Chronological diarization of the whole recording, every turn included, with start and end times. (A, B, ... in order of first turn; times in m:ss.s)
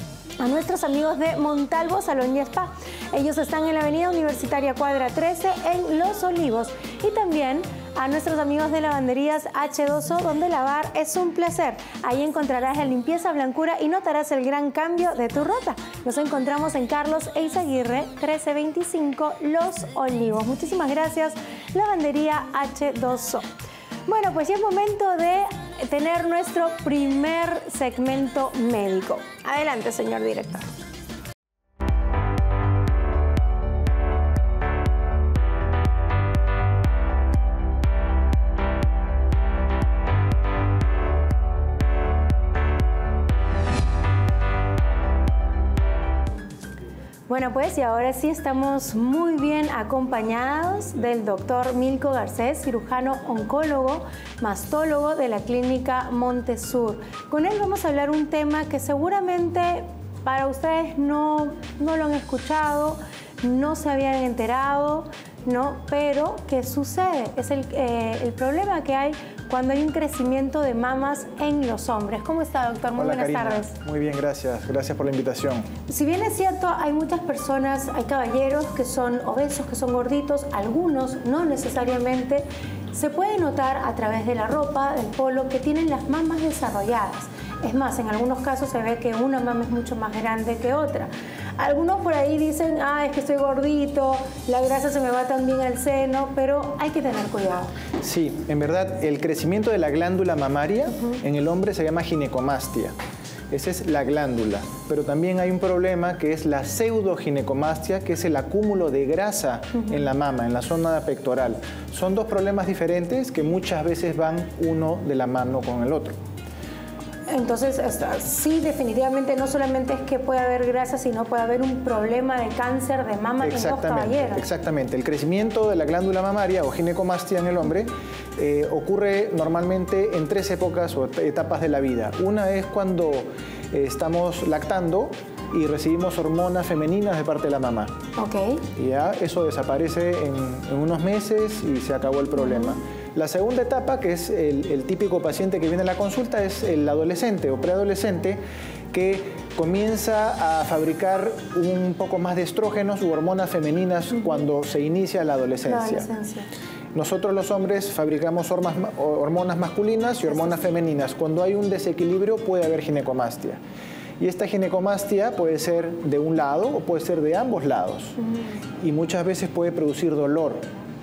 0:00.4-0:23.5 A
0:24.1-0:30.6 A
0:47.3-1:13.7 A
1:13.0-1:15.7 B
1:15.9-1:37.7 A
1:38.0-1:43.0 B
1:43.5-1:56.2 B
1:49.8-1:50.0 A
1:57.3-2:04.4 A
2:03.4-2:17.9 B
2:18.2-2:18.6 A
2:18.8-2:36.1 B
2:22.4-2:22.8 A
2:35.6-2:36.5 A
2:36.9-2:43.6 B
2:40.3-2:40.6 A
2:44.2-2:48.2 B
2:48.2-2:48.6 A
2:48.8-2:50.6 B